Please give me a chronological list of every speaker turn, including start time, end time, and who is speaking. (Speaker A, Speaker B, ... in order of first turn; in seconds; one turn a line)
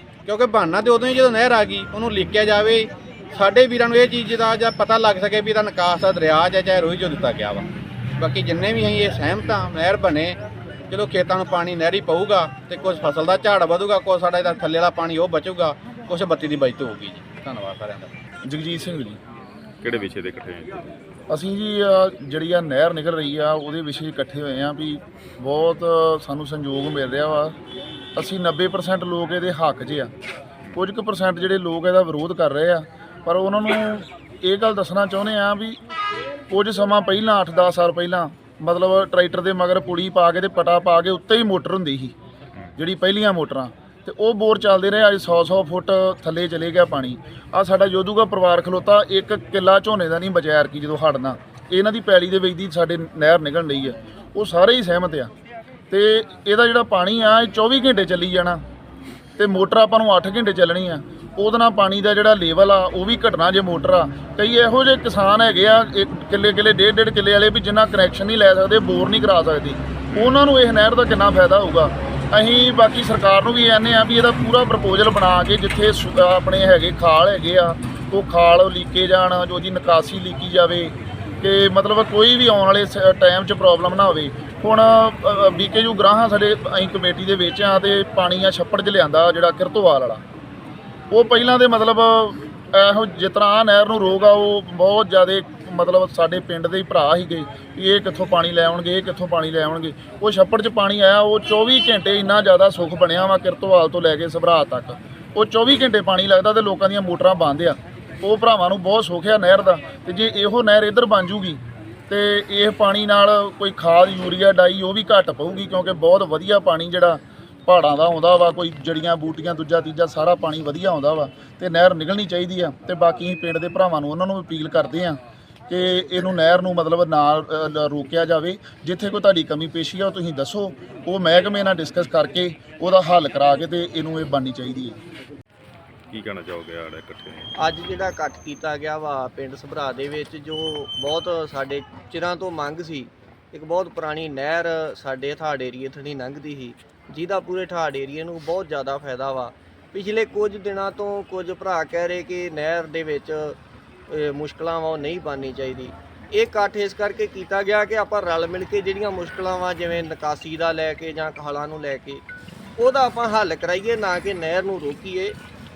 Speaker A: 0.3-2.8
Speaker A: 3.4-7.6
Speaker A: 8.2-10.3
Speaker A: 10.9-13.5
Speaker A: 14.4-14.7
Speaker A: 15.3-16.3
Speaker A: 16.9-17.6
Speaker B: 18.4-19.2
Speaker C: 19.8-20.9
Speaker B: 21.3-27.5
Speaker B: 28.1-30.1
Speaker B: 30.7-35.8
Speaker B: 36.5-42.1
Speaker B: 42.8-55.3
Speaker B: 55.9-58.6
Speaker B: 59.4-90.2
Speaker C: 70.1-70.4
Speaker B: 91.1-135.0
Speaker C: 136.1-137.5
Speaker D: 137.6-153.6
Speaker D: 154.1-162.2
Speaker D: 162.8-165.3